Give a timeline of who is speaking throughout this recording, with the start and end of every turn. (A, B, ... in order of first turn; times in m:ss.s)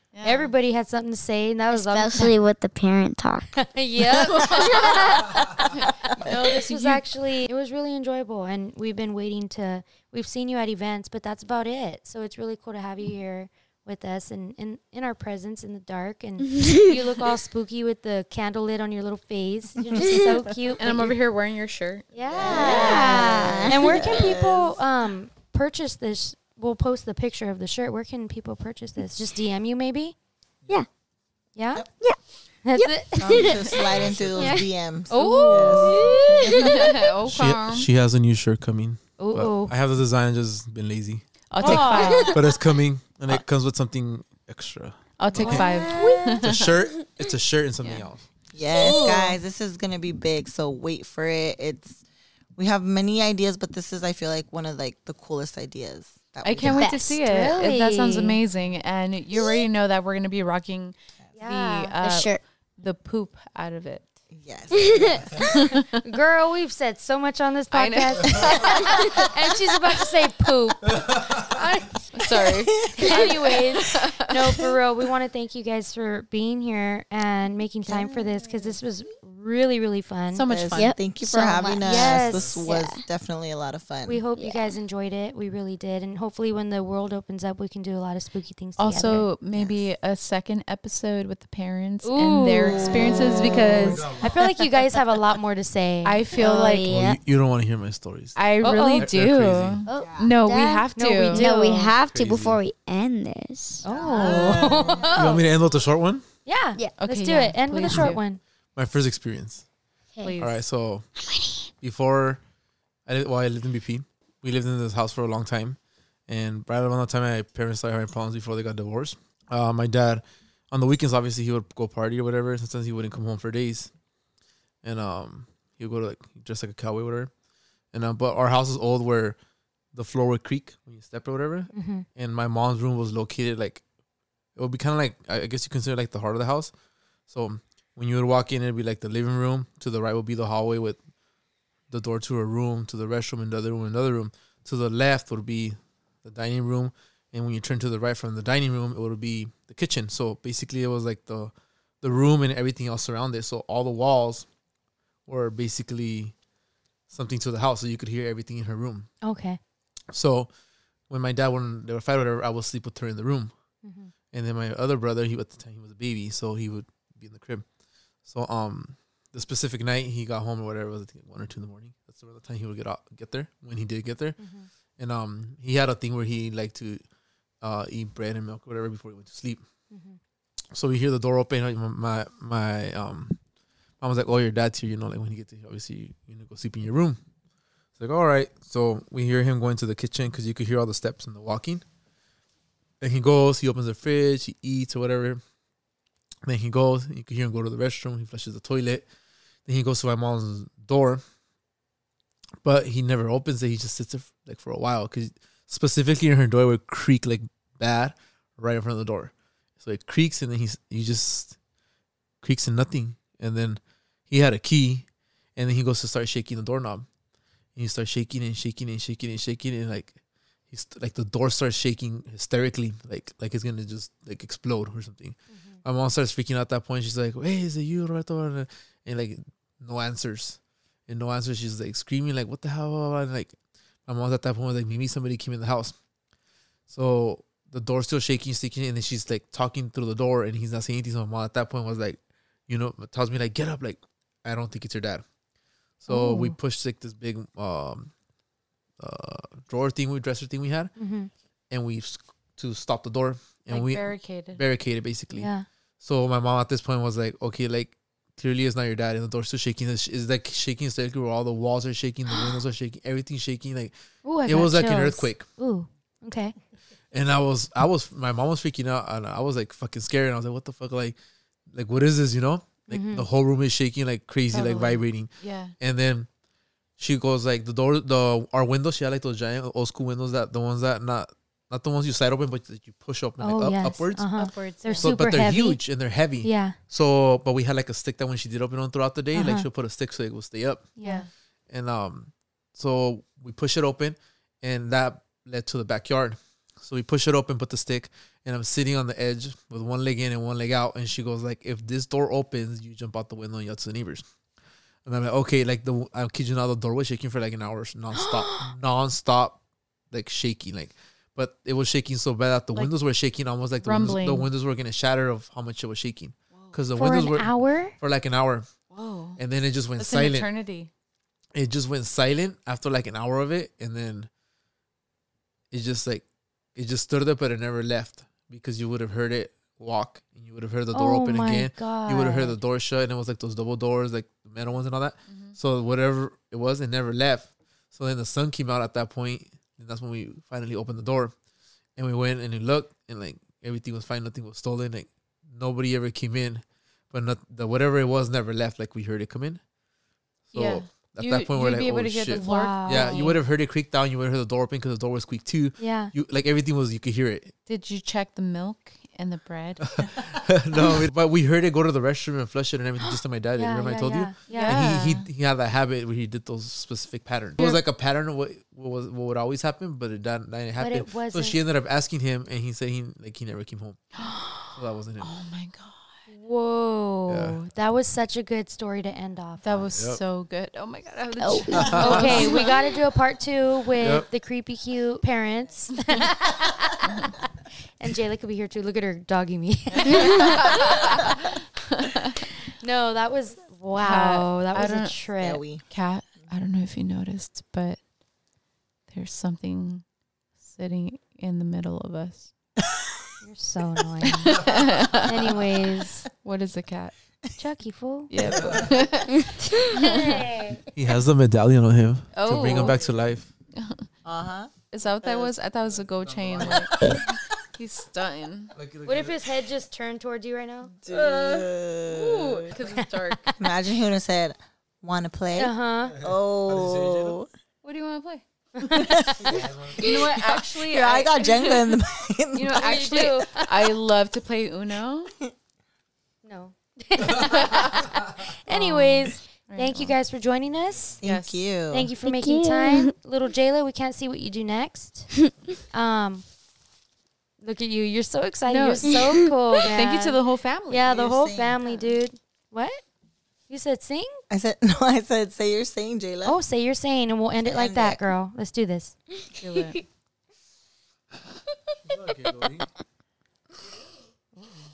0:00.1-0:00.5 A
0:00.2-0:02.4 B
0:01.7-0:03.6 C
0:03.6-0:05.7 B
0:04.3-0:05.2 A
0:05.7-0:07.0 A
0:06.2-0:21.2 B
0:16.5-0:16.9 C
0:20.8-0:22.1 A
0:22.1-0:30.2 B
0:22.2-0:24.8 D
0:22.4-0:24.1 C
0:31.6-0:31.8 B
0:32.6-0:33.5 B
0:32.8-0:33.8 C
0:33.3-0:33.8 A
0:33.3-0:36.7 D
0:33.9-0:34.5 E
0:34.4-0:34.7 C
0:35.1-0:36.2 B
0:35.1-0:36.0 A
0:35.8-0:37.0 C
0:36.5-0:37.9 A
0:37.3-0:41.2 E
0:39.2-0:39.7 B
0:41.5-0:42.4 A
0:41.6-0:42.4 B
0:41.7-0:42.4 C
0:42.2-0:45.7 E
0:45.2-0:46.8 A
0:45.4-0:46.4 C
0:45.4-0:46.2 B
0:46.4-0:48.2 E
0:47.8-0:48.1 A
0:48.5-0:52.0 D
0:48.8-0:49.4 B
0:52.6-0:56.9 D
0:56.4-1:04.2 A
0:56.6-0:57.2 C
0:57.0-0:58.4 B
1:01.4-1:01.9 B
1:02.0-1:02.4 C
1:04.3-1:05.5 D
1:04.7-1:05.5 C
1:05.5-1:06.0 A
1:05.9-1:12.1 B
1:07.7-1:09.0 A
1:12.1-1:14.4 A
1:12.6-1:13.1 D
1:13.0-1:20.4 B
1:17.9-1:18.6 C
1:20.3-1:21.0 A
1:20.5-1:24.2 D
1:20.7-1:23.0 C
1:21.8-1:22.6 B
1:24.1-1:29.3 B
1:24.4-1:24.8 C
1:28.8-1:34.3 A
1:32.0-1:36.2 B
1:32.8-1:34.0 D
1:36.0-1:36.9 A
1:36.3-1:37.2 C
1:36.8-1:38.4 E
1:38.4-1:41.5 A
1:38.6-1:39.1 B
1:38.9-1:39.8 E
1:39.9-1:43.9 C
1:40.0-1:40.3 D
1:41.0-1:41.9 B
1:42.0-1:42.6 E
1:43.8-1:45.4 B
1:43.8-1:45.2 D
1:44.3-1:46.2 E
1:46.5-1:48.4 B
1:47.0-1:48.2 A
1:47.9-1:48.1 E
1:48.8-1:49.6 E
1:50.2-1:50.6 A
1:50.4-1:51.0 E
1:51.2-1:51.7 C
1:51.8-1:52.4 E
1:53.1-1:55.8 E
1:56.3-2:03.9 E
2:04.8-2:07.3 E
2:07.9-2:09.4 E
2:09.9-2:13.8 E
2:11.7-2:12.1 B
2:14.6-2:16.7 E
2:17.3-2:21.0 E
2:21.9-2:34.5 E
2:35.3-2:36.3 E
2:37.1-2:39.1 E
2:39.2-2:39.6 B
2:40.1-2:40.5 E
2:41.1-2:43.5 E
2:43.8-2:44.1 B
2:44.3-2:47.6 E
2:48.2-2:54.4 E
2:54.4-2:54.7 B
2:55.0-2:57.0 E
2:57.6-2:59.6 E
2:59.9-3:00.2 B
3:00.7-3:03.4 E
3:04.0-3:07.2 E
3:08.0-3:11.8 E
3:13.0-3:15.4 E
3:16.5-3:19.1 E
3:19.7-3:21.2 E
3:22.6-3:31.6 E
3:32.4-3:37.1 E
3:37.8-3:40.2 E
3:40.7-3:53.6 E
3:45.5-3:45.8 B
3:54.1-3:56.0 E
3:56.9-4:05.2 E
4:06.0-4:08.1 E
4:06.1-4:06.5 B
4:06.1-4:06.5 A
4:09.0-4:10.9 E
4:11.0-4:11.3 B
4:11.7-4:23.9 E
4:13.7-4:14.6 A
4:15.3-4:15.6 B
4:24.2-4:26.5 B
4:24.4-4:25.4 E
4:27.1-4:31.2 E
4:31.7-4:36.3 E
4:32.9-4:33.3 B
4:34.5-4:35.8 A
4:37.0-4:51.0 E
4:43.4-4:45.8 B
4:44.3-4:45.2 A
4:46.4-4:46.8 B
4:49.3-4:49.7 B
4:51.0-4:51.2 B
4:51.0-4:51.3 A
4:51.7-5:04.2 E
5:05.0-5:09.6 E
5:08.2-5:08.7 B
5:10.1-5:18.7 E
5:13.8-5:14.5 A
5:16.9-5:18.0 B
5:18.9-5:19.4 A
5:19.4-5:20.5 E
5:20.0-5:20.9 A
5:21.6-5:24.3 E
5:25.7-5:41.3 E
5:30.9-5:32.6 B
5:35.3-5:35.6 A
5:42.0-5:49.6 E
5:50.5-5:57.5 E
5:50.5-5:53.4 A
5:52.3-5:53.4 B
5:55.8-5:56.1 B
5:57.7-5:59.8 A
5:59.8-6:14.0 E
6:03.0-6:04.8 B
6:04.5-6:05.3 A
6:10.8-6:11.6 B
6:14.2-6:16.1 A
6:14.8-6:15.3 E
6:16.3-6:19.9 B
6:17.3-6:17.6 E
6:19.6-6:22.8 A
6:19.9-6:20.2 E
6:21.4-6:22.0 C
6:21.7-6:22.6 E
6:21.8-6:27.4 B
6:24.0-6:24.3 E
6:28.0-6:31.3 B
6:30.7-6:31.3 A
6:31.9-6:32.4 A
6:32.8-6:35.6 B
6:34.0-6:35.2 A
6:35.4-6:35.8 D
6:35.9-6:38.0 A
6:39.1-6:40.0 A
6:40.6-6:42.5 A
6:43.4-6:46.3 B
6:44.2-6:47.2 A
6:47.6-6:48.3 B
6:48.3-6:50.5 A
6:48.6-6:49.0 E
6:49.9-6:50.8 B
6:50.9-6:53.5 E
6:52.3-6:53.0 A
6:53.8-6:54.1 A
6:54.2-6:54.7 D
6:54.9-6:58.8 A
6:55.2-6:55.5 D
6:56.2-6:56.9 E
6:58.7-6:59.5 E
6:59.0-7:00.9 B
7:01.0-7:02.7 D
7:01.1-7:03.6 A
7:03.6-7:07.5 D
7:05.6-7:06.2 B
7:06.7-7:07.4 E
7:07.8-7:12.0 A
7:08.8-7:09.7 B
7:08.9-7:13.0 D
7:12.5-7:15.3 A
7:12.8-7:13.8 B
7:16.4-7:21.2 B
7:17.6-7:18.0 A
7:18.7-7:20.2 A
7:21.2-7:22.1 D
7:21.2-7:21.6 A
7:21.9-7:25.4 B
7:22.2-7:23.1 C
7:25.9-7:26.4 B
7:27.6-7:33.0 B
7:28.7-7:31.1 A
7:31.1-7:31.8 D
7:33.7-7:34.4 B
7:34.5-7:36.6 D
7:36.4-7:39.2 B
7:37.6-7:38.2 D
7:39.6-7:40.0 A
7:39.6-7:40.0 C
7:42.1-7:42.8 E
7:42.1-7:42.9 C